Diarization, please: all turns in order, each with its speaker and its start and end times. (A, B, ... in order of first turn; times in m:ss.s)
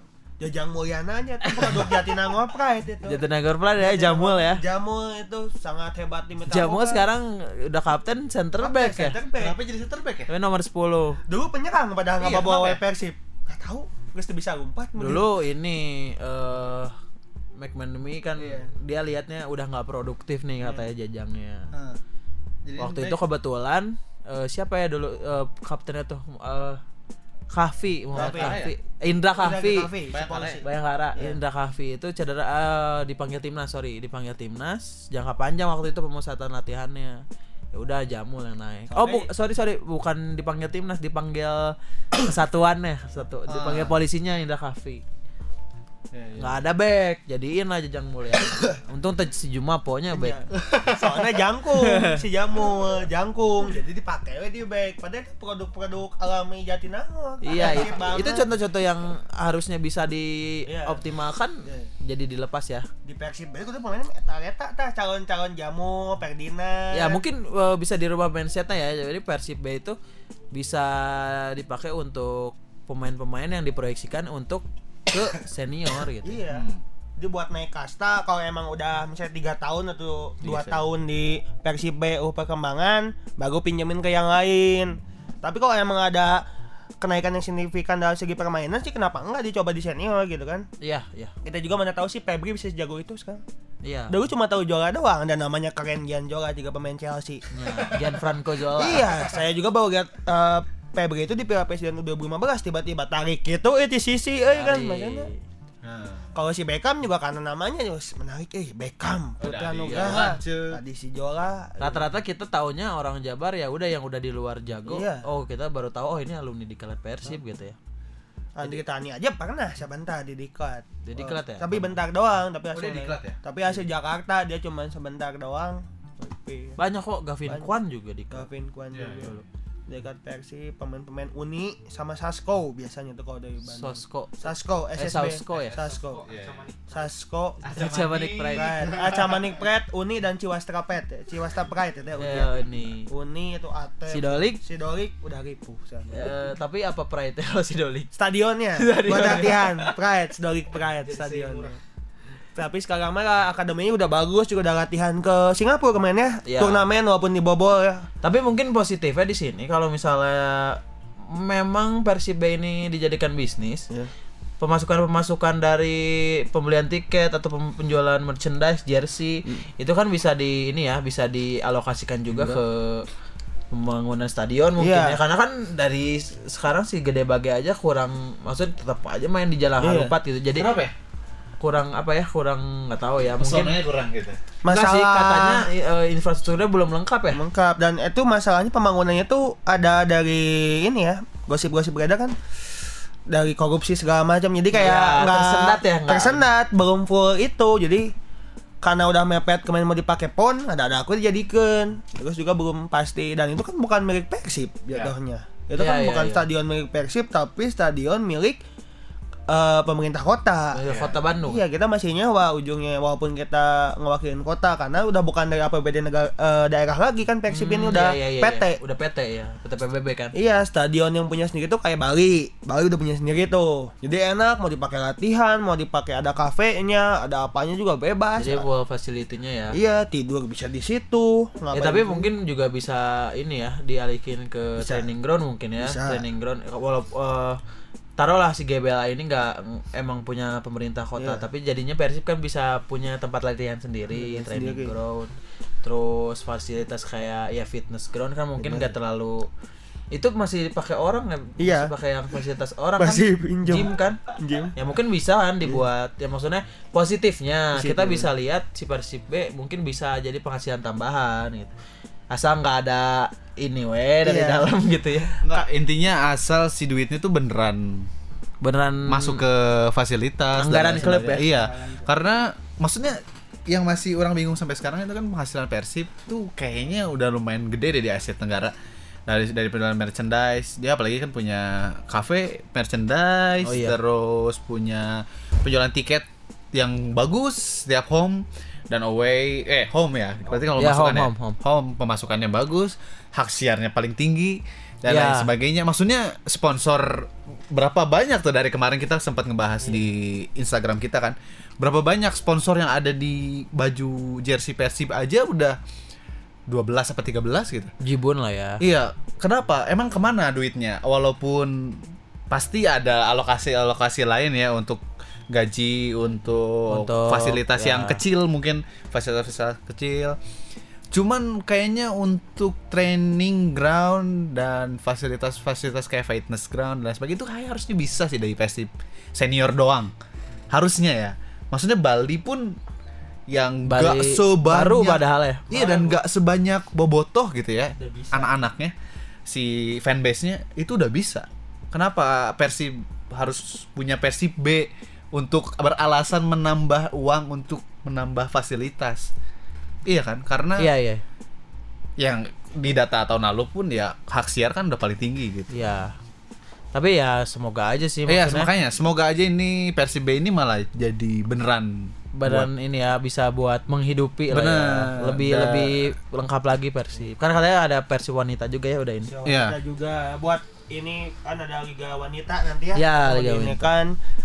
0:00.4-0:03.2 A
0:01.6-0:02.0 B
0:03.0-0:04.6 B
0:03.8-0:07.1 A
0:06.5-0:09.2 B
0:08.6-0:09.6 A
0:09.4-0:10.3 C
0:10.3-0:11.2 B
0:11.3-0:15.3 A
0:12.2-0:12.8 C
0:15.0-0:17.0 B
0:17.6-0:21.7 B
0:20.6-0:20.9 A
0:21.7-0:22.0 C
0:22.6-0:23.2 C
0:22.8-0:26.8 B
0:27.5-0:29.9 B
0:28.1-0:28.6 A
0:28.2-0:28.8 C
0:29.4-0:30.6 A
0:30.1-0:30.6 C
0:30.6-0:45.0 B
0:38.9-0:39.3 A
0:43.5-0:44.0 C
0:46.1-0:46.6 C
0:46.4-0:50.4 B
0:50.1-0:58.5 A
0:50.6-0:51.2 C
0:51.7-0:52.2 B
0:57.4-1:02.9 B
1:00.7-1:01.0 A
1:01.6-1:01.9 A
1:03.0-1:07.2 A
1:06.9-1:10.0 B
1:10.5-1:16.4 B
1:16.2-1:16.7 A
1:16.5-1:16.8 C
1:17.2-1:26.4 A
1:20.4-1:20.8 C
1:27.0-1:30.7 A
1:30.8-1:31.3 B
1:31.4-1:33.4 A
1:33.8-1:34.2 B
1:34.1-1:37.4 A
1:37.5-1:39.2 B
1:38.8-1:45.3 A
1:44.5-1:45.4 B
1:45.8-1:46.3 C
1:46.4-1:52.1 A
1:49.4-1:50.8 C
1:49.8-1:50.4 B
1:51.8-1:57.8 B
1:54.9-1:55.3 A
1:58.6-2:06.8 A
2:01.0-2:01.8 B
2:02.7-2:03.4 C
2:06.8-2:08.5 B
2:07.5-2:07.7 A
2:08.3-2:09.4 A
2:08.9-2:09.4 C
2:09.9-2:16.3 A
2:13.7-2:15.8 B
2:15.5-2:16.9 C
2:16.9-2:17.6 A
2:17.6-2:19.5 C
2:17.6-2:18.7 B
2:18.5-2:22.5 A
2:22.2-2:23.1 B
2:23.1-2:26.3 A
2:24.1-2:24.6 B
2:26.1-2:28.1 B
2:28.1-2:31.8 A
2:28.8-2:29.9 B
2:31.0-2:31.7 C
2:32.6-2:38.1 A
2:36.4-2:36.8 B
2:38.2-2:43.9 B
2:44.6-2:53.1 B
2:53.7-3:00.7 B
2:54.8-2:55.2 A
2:59.8-3:00.2 A
3:00.6-3:00.9 C
3:01.6-3:03.8 B
3:03.4-3:04.4 C
3:04.6-3:05.7 A
3:04.7-3:07.4 B
3:07.3-3:12.4 A
3:13.3-3:18.1 A
3:14.7-3:16.4 B
3:18.8-3:28.6 A
3:25.8-3:26.5 B
3:29.5-3:30.8 A
3:30.7-3:31.6 B
3:30.9-3:31.2 C
3:31.4-3:38.8 A
3:37.5-3:40.3 B
3:40.3-3:48.7 A
3:48.4-3:49.8 B
3:49.7-3:52.3 A
3:51.7-3:57.6 B
3:54.8-3:55.1 A
3:55.8-3:56.2 A
3:58.2-4:05.3 B
4:01.2-4:01.4 A
4:04.1-4:04.9 A
4:05.8-4:09.5 B
4:08.6-4:08.9 A
4:10.1-4:14.2 B
4:11.6-4:11.9 A
4:13.0-4:14.8 A
4:14.8-4:21.7 B
4:17.7-4:18.3 A
4:22.3-4:25.4 B
4:24.2-4:24.7 A
4:25.4-4:28.1 C
4:28.6-4:29.4 B
4:29.1-4:38.7 C
4:30.6-4:31.5 B
4:31.3-4:32.1 A
4:39.3-5:05.8 C
4:43.6-4:44.0 B
4:50.8-4:51.6 B
4:55.1-4:55.5 B
5:06.7-5:07.9 C
5:08.0-5:08.8 B
5:08.8-5:20.4 C
5:16.9-5:18.2 B
5:21.1-5:30.1 C
5:30.7-5:32.8 C
5:33.5-5:38.9 C
5:33.9-5:35.7 B
5:35.7-5:36.2 A
5:38.0-5:38.5 A
5:39.5-5:49.3 C
5:50.0-5:50.9 C
5:50.8-5:51.2 B
5:52.2-5:55.8 C
5:55.7-5:56.2 B
5:56.9-5:58.7 B
5:58.3-6:02.7 C
6:02.3-6:09.3 B
6:04.5-6:06.1 C
6:09.3-6:14.2 A
6:09.4-6:09.8 C
6:13.0-6:13.9 B